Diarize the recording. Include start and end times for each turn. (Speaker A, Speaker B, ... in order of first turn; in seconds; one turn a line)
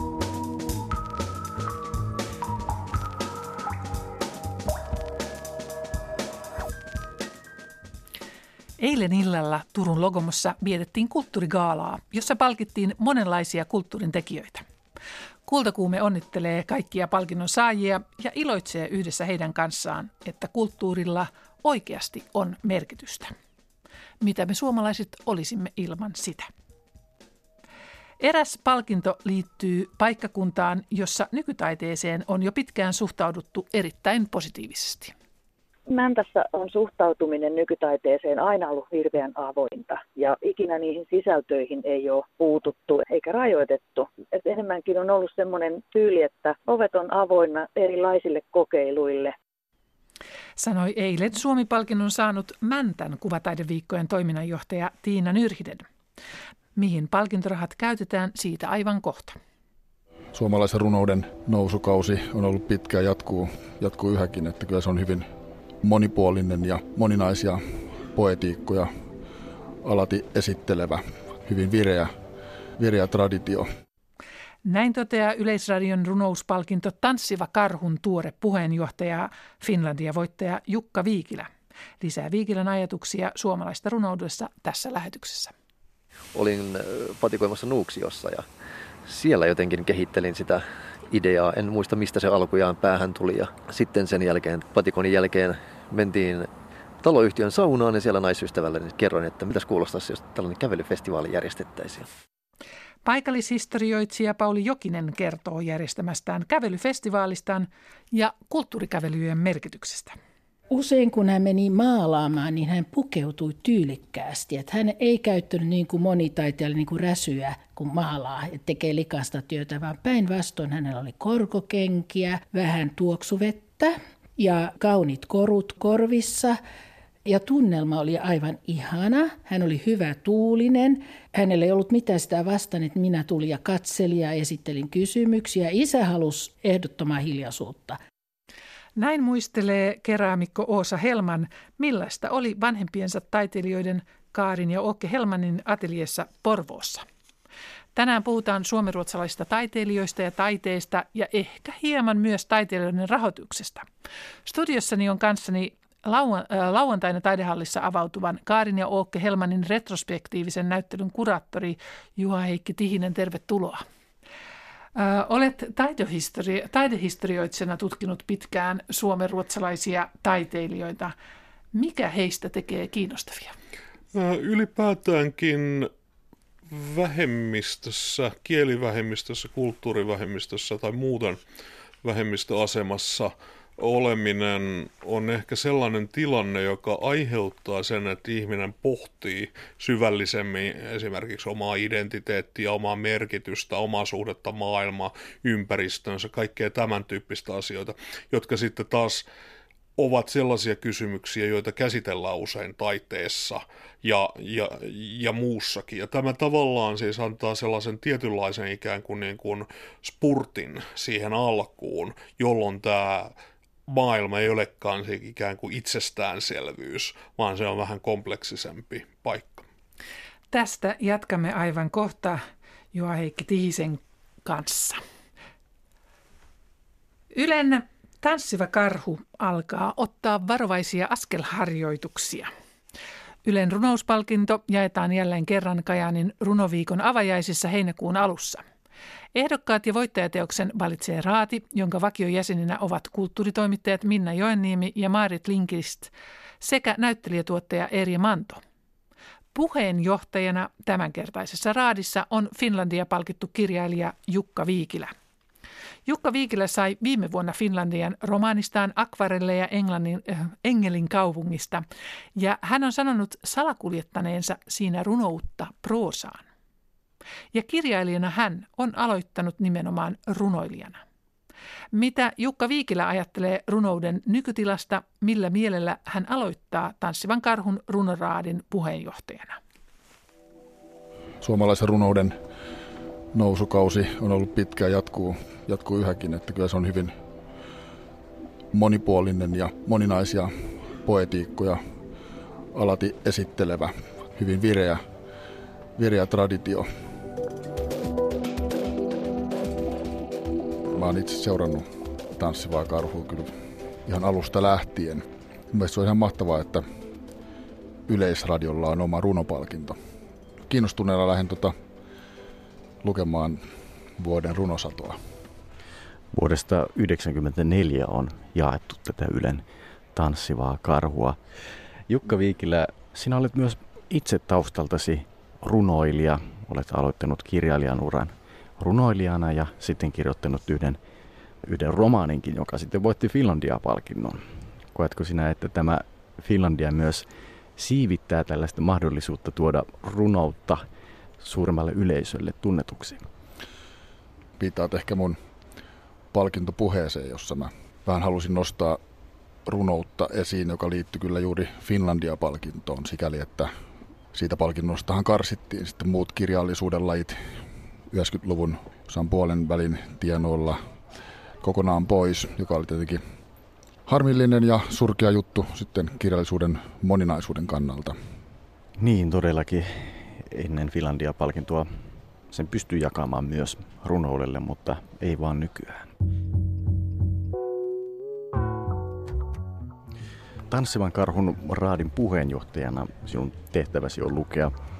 Speaker A: 8.8-14.6
Speaker A: 15.4-23.3
Speaker A: 24.2-26.5
Speaker A: 28.2-35.1
Speaker B: 35.9-49.3
Speaker A: 50.6-55.9
Speaker A: 56.8-59.4
Speaker C: 60.3-65.3
Speaker C: 65.8-67.6
Speaker C: 68.1-68.9
Speaker C: 69.8-72.1
Speaker C: 72.8-73.7
Speaker A: 74.6-81.5
Speaker A: 82.0-85.5
Speaker D: 86.3-88.5
Speaker D: 89.0-96.5
Speaker D: 97.0-102.1
Speaker A: 103.0-110.1
Speaker E: 110.7-126.6
Speaker E: 127.2-138.0
Speaker A: 138.9-147.0
Speaker A: 147.9-153.8
Speaker A: 154.4-163.8
Speaker A: 164.9-171.1
Speaker A: 171.7-173.5
Speaker F: 174.1-175.9
Speaker F: 176.7-181.4
Speaker F: 182.0-199.2
Speaker F: 200.0-213.3
Speaker F: 213.9-219.7
Speaker A: 220.5-222.4
Speaker A: 222.9-225.0
Speaker A: 227.3-232.5
Speaker A: 233.4-238.6
Speaker A: 239.3-248.6
Speaker A: 249.5-255.1
Speaker A: 256.1-266.4
Speaker A: 267.5-271.0
Speaker A: 271.9-279.6
Speaker C: 281.4-282.4
Speaker C: 283.3-287.1
Speaker C: 288.7-291.8
Speaker C: 292.7-295.0
Speaker C: 295.9-296.9
Speaker C: 300.9-303.5
Speaker C: 304.0-306.8
Speaker C: 308.1-309.9
Speaker C: 310.6-311.7
Speaker C: 313.0-313.6
Speaker C: 314.2-315.2
Speaker G: 316.3-343.3
Speaker C: 344.6-345.4
Speaker C: 346.3-349.0
Speaker C: 349.6-353.7
Speaker C: 354.3-360.8
Speaker C: 361.6-363.2
Speaker C: 364.1-368.1
Speaker G: 369.0-376.1
Speaker G: 380.7-384.7